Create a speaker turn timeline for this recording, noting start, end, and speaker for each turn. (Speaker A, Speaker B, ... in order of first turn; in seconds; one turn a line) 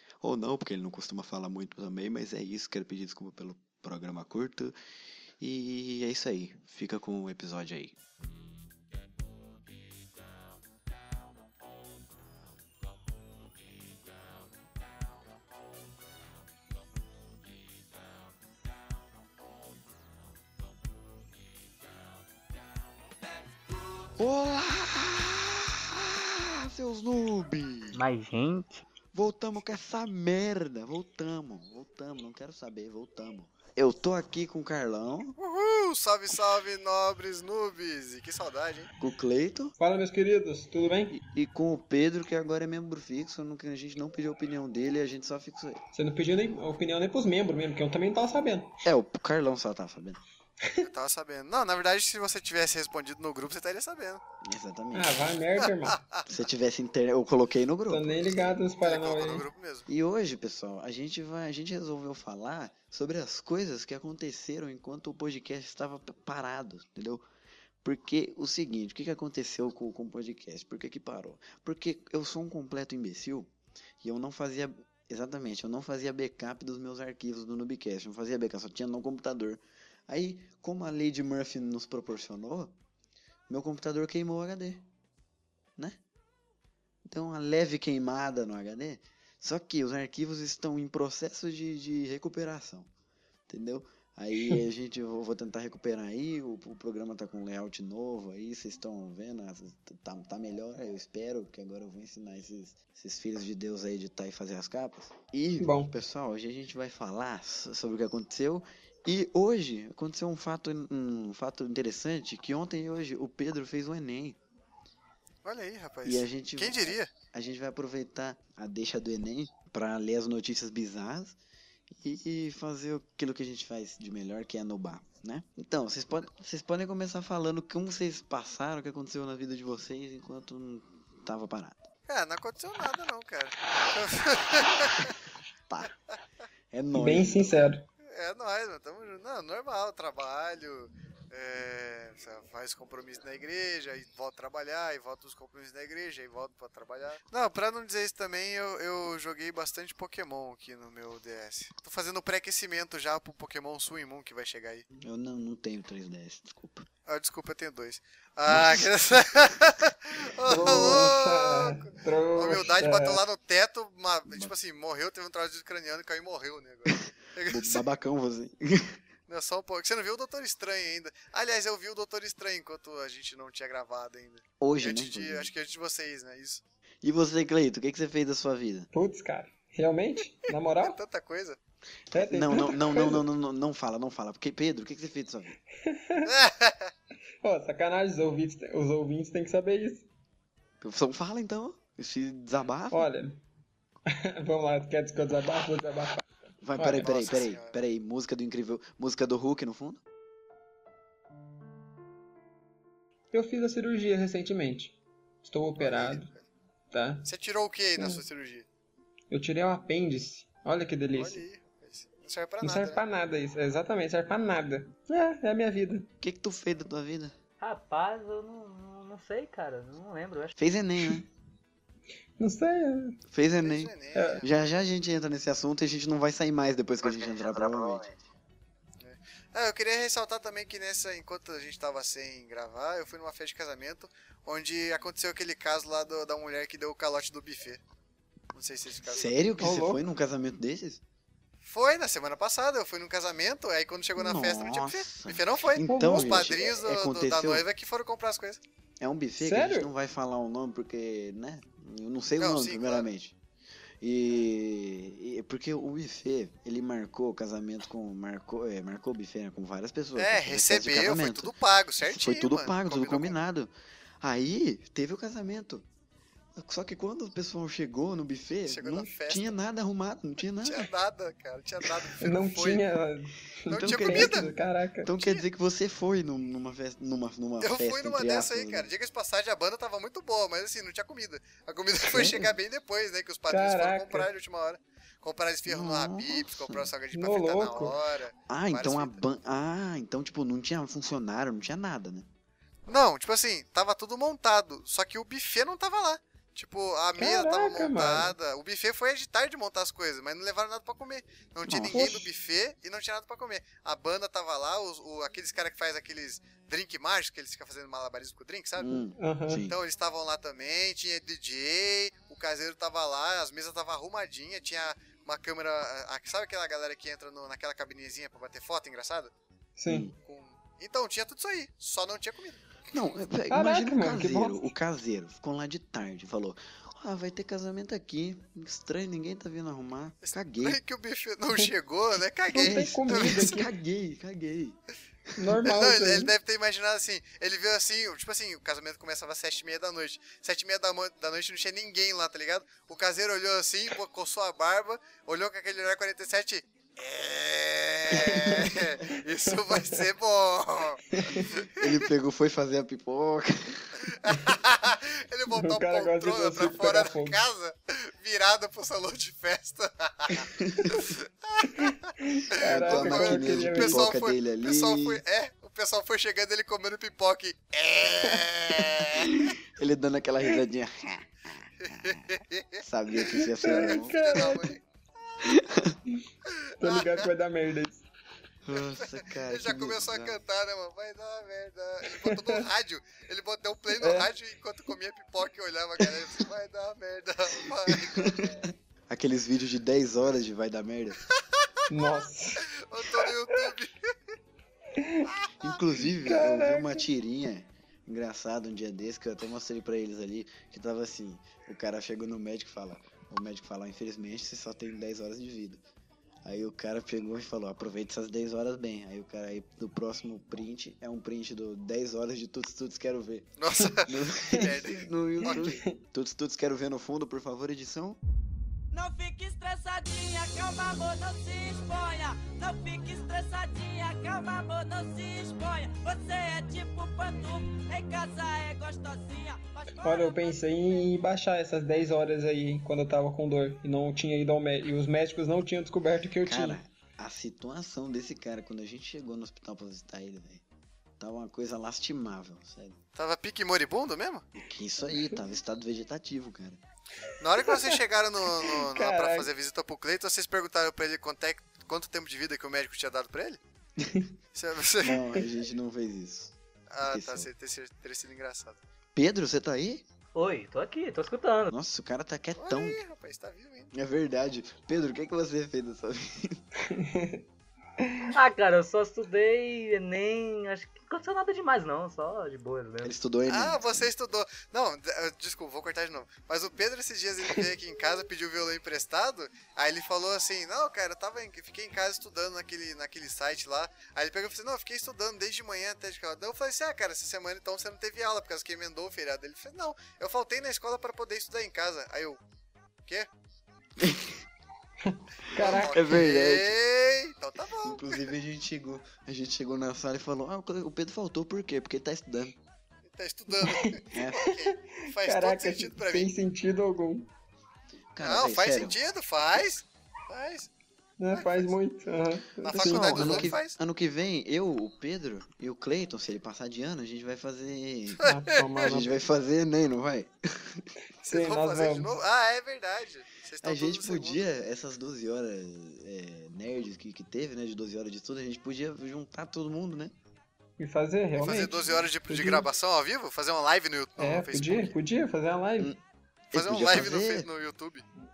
Speaker A: 0.2-4.8
Speaker A: 5.4-8.0
Speaker A: 24.2-28.0
Speaker B: 27.9-28.8
Speaker A: 29.1-35.4
Speaker C: 35.4-38.9
Speaker A: 39.0-39.8
Speaker D: 39.8-41.1
Speaker A: 41.1-45.8
Speaker D: 45.9-48.8
Speaker A: 48.8-50.2
Speaker D: 50.6-50.9
Speaker C: 50.8-54.2
Speaker A: 54.4-55.2
Speaker D: 54.9-56.0
Speaker C: 55.6-56.3
Speaker A: 56.3-58.6
Speaker D: 57.9-59.5
Speaker C: 58.8-59.9
Speaker A: 59.9-67.2
Speaker A: 67.8-73.5
Speaker A: 74.0-82.8
Speaker A: 83.5-84.8
Speaker A: 87.0-92.9
Speaker A: 93.5-114.4
Speaker D: 105.6-105.9
Speaker C: 115.4-117.1
Speaker A: 116.0-121.4
Speaker A: 122.0-131.9
Speaker C: 132.1-135.2
Speaker A: 135.7-135.9
Speaker A: 136.7-137.6
Speaker D: 136.9-137.9
Speaker C: 138.0-154.9
Speaker A: 154.9-156.9
Speaker C: 157.1-167.8
Speaker D: 160.5-163.2
Speaker A: 160.6-161.1
Speaker A: 166.9-169.0
Speaker C: 169.3-176.6
Speaker A: 174.6-175.5
Speaker A: 177.0-178.9
Speaker D: 178.9-181.0
Speaker C: 180.8-181.6
Speaker D: 182.1-183.2
Speaker A: 182.1-185.6
Speaker D: 185.7-186.4
Speaker C: 186.2-186.9
Speaker D: 187.4-190.1
Speaker A: 190.8-193.1
Speaker D: 192.9-193.4
Speaker D: 194.1-196.2
Speaker A: 196.6-200.0
Speaker D: 196.8-197.2
Speaker C: 197.0-197.8
Speaker D: 203.3-206.3
Speaker C: 205.8-206.4
Speaker D: 206.9-207.3
Speaker C: 207.2-208.7
Speaker D: 208.0-208.2
Speaker D: 209.3-211.4
Speaker C: 211.2-213.0
Speaker D: 212.6-216.1
Speaker A: 216.2-217.3
Speaker B: 217.6-220.6
Speaker A: 220.6-221.3
Speaker D: 222.4-223.2
Speaker A: 223.3-228.2
Speaker C: 223.6-224.7
Speaker D: 224.1-224.4
Speaker C: 229.0-237.8
Speaker C: 238.5-239.3
Speaker A: 239.0-241.0
Speaker D: 239.6-240.1
Speaker C: 241.6-248.6
Speaker A: 244.2-247.6
Speaker D: 245.9-246.5
Speaker A: 249.0-253.3
Speaker D: 249.4-249.9
Speaker C: 252.4-253.1
Speaker A: 254.0-261.5
Speaker C: 260.1-263.4
Speaker A: 262.0-265.9
Speaker A: 266.6-270.9
Speaker C: 268.7-269.6
Speaker C: 270.6-272.8
Speaker D: 272.2-275.1
Speaker C: 273.7-274.5
Speaker A: 273.7-274.5
Speaker A: 275.1-278.9
Speaker C: 275.2-275.4
Speaker C: 277.6-289.2
Speaker A: 282.1-282.5
Speaker D: 283.5-284.3
Speaker A: 285.6-286.9
Speaker D: 287.1-288.0
Speaker A: 288.5-292.3
Speaker C: 292.9-308.9
Speaker D: 297.1-298.3
Speaker A: 301.6-302.2
Speaker A: 308.8-309.8
Speaker D: 309.2-309.6
Speaker C: 309.7-319.3
Speaker D: 319.8-320.1
Speaker A: 319.9-320.1
Speaker C: 320.2-322.6
Speaker A: 322.9-330.8
Speaker D: 323.5-324.7
Speaker C: 330.2-333.6
Speaker D: 332.5-333.7
Speaker A: 332.6-334.8
Speaker D: 335.4-336.3
Speaker C: 335.6-351.8
Speaker D: 348.1-348.8
Speaker D: 349.5-350.1
Speaker D: 351.1-351.5
Speaker A: 351.7-354.0
Speaker C: 354.1-362.1
Speaker D: 355.5-357.4
Speaker A: 360.3-361.1
Speaker D: 361.8-364.1
Speaker A: 362.6-365.2
Speaker C: 362.6-369.5
Speaker A: 368.8-372.2
Speaker C: 371.8-374.8
Speaker A: 372.8-374.5
Speaker D: 373.3-374.8
Speaker A: 375.4-376.0
Speaker C: 376.5-377.3
Speaker D: 376.8-378.0
Speaker A: 378.6-380.4
Speaker C: 378.8-388.5
Speaker D: 382.2-382.6
Speaker D: 384.0-384.3
Speaker A: 387.9-391.2
Speaker C: 391.3-391.7
Speaker D: 391.9-392.6
Speaker C: 392.7-394.0
Speaker D: 393.2-393.7
Speaker D: 394.9-395.3
Speaker C: 395.3-395.7
Speaker A: 395.6-405.8
Speaker D: 396.0-397.1
Speaker A: 406.4-413.5
Speaker C: 413.6-415.6
Speaker A: 414.1-418.2
Speaker D: 415.4-416.0
Speaker E: 418.9-430.6
Speaker D: 430.0-436.8
Speaker A: 436.4-440.6
Speaker A: 441.2-443.0
Speaker C: 443.1-444.4
Speaker A: 444.6-446.8
Speaker C: 447.4-453.6
Speaker D: 447.6-448.0
Speaker D: 448.6-449.5
Speaker C: 454.5-455.2
Speaker A: 455.0-457.5
Speaker C: 456.9-458.8
Speaker A: 459.1-460.0
Speaker B: 460.3-461.7
Speaker A: 461.7-463.0
Speaker C: 462.6-463.9
Speaker A: 463.9-466.6
Speaker D: 466.8-467.4
Speaker D: 468.0-468.4
Speaker B: 468.3-473.1
Speaker A: 473.0-474.1
Speaker C: 473.5-492.4
Speaker A: 494.0-494.4
Speaker D: 495.0-496.3
Speaker A: 495.6-496.8
Speaker C: 495.6-498.3
Speaker A: 497.8-502.6
Speaker C: 503.1-506.3
Speaker D: 503.5-507.3
Speaker A: 504.1-504.4
Speaker A: 508.1-509.0
Speaker C: 508.2-510.7
Speaker D: 511.2-513.6
Speaker C: 511.3-511.7
Speaker C: 512.6-513.8
Speaker A: 512.7-518.2
Speaker C: 518.2-518.9
Speaker D: 518.2-519.2
Speaker A: 518.8-520.9
Speaker D: 521.2-522.2
Speaker C: 521.2-524.5
Speaker A: 523.6-530.1
Speaker D: 530.8-532.7
Speaker C: 531.4-535.0
Speaker D: 534.2-535.9
Speaker A: 536.5-537.5
Speaker C: 536.5-538.0